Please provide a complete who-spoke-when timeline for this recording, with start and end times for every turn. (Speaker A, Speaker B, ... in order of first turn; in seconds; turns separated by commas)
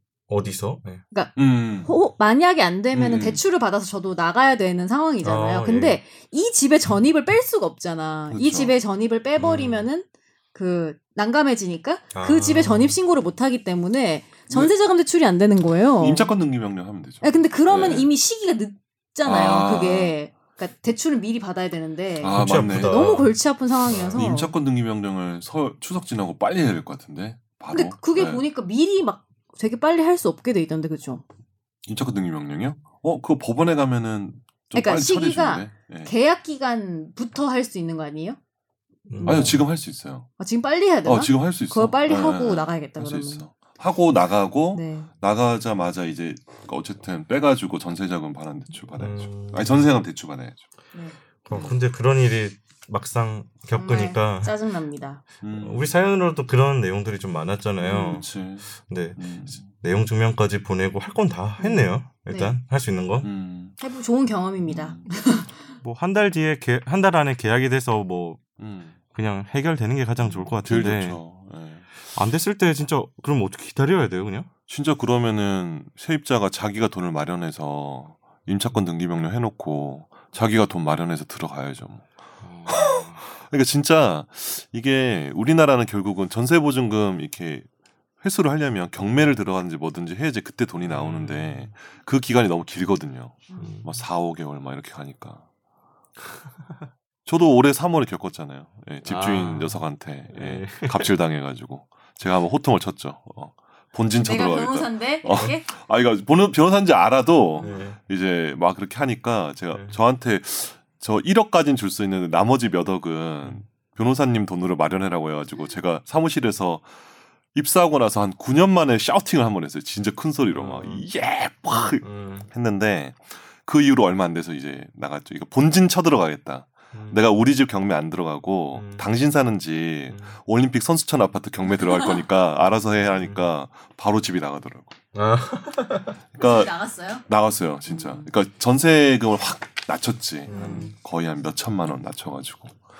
Speaker A: 0.3-1.0, Speaker B: 1.1-16.3, Speaker C: 1.4-1.9, Speaker C: 2.9-3.4, Speaker A: 5.2-6.0, Speaker C: 8.3-8.7, Speaker A: 9.4-9.9, Speaker A: 12.1-12.9, Speaker C: 16.0-18.1, Speaker B: 17.2-24.5, Speaker C: 19.2-20.1, Speaker C: 22.2-23.1, Speaker A: 22.3-23.3, Speaker A: 23.9-24.2, Speaker C: 24.1-28.4, Speaker B: 27.7-31.2, Speaker C: 31.9-36.1, Speaker B: 34.7-38.4, Speaker A: 39.1-39.6, Speaker B: 39.2-39.6, Speaker C: 39.2-40.3, Speaker B: 40.4-43.4, Speaker C: 41.0-50.6, Speaker B: 44.7-45.1, Speaker A: 49.0-49.9, Speaker A: 51.5-54.5, Speaker C: 51.5-51.8, Speaker B: 53.7-55.2, Speaker C: 55.4-55.9, Speaker A: 55.5-58.2, Speaker B: 57.8-58.2, Speaker C: 57.9-59.6, Speaker A: 58.8-63.3, Speaker B: 61.6-62.6, Speaker C: 63.2-63.8, Speaker B: 63.8-65.5, Speaker C: 64.6-65.0, Speaker A: 65.8-68.4, Speaker C: 68.6-69.0, Speaker A: 69.1-71.2, Speaker C: 70.2-71.9, Speaker A: 72.1-74.5, Speaker C: 74.7-82.0, Speaker A: 82.4-83.2, Speaker C: 82.7-87.7, Speaker C: 88.2-95.4, Speaker A: 90.8-91.7, Speaker B: 93.5-93.7, Speaker A: 93.6-93.9, Speaker C: 97.2-116.8, Speaker A: 99.0-101.1, Speaker B: 104.2-105.7, Speaker A: 107.6-108.0, Speaker A: 109.7-110.0, Speaker C: 117.5-134.9, Speaker A: 120.5-121.0, Speaker A: 122.0-122.5, Speaker A: 126.9-127.2, Speaker A: 128.7-129.1, Speaker B: 131.7-132.2, Speaker A: 133.2-133.4, Speaker A: 135.1-136.2, Speaker C: 136.3-136.7, Speaker B: 136.4-137.2, Speaker C: 137.3-142.8, Speaker B: 137.9-138.3, Speaker A: 140.5-140.9, Speaker B: 140.5-140.9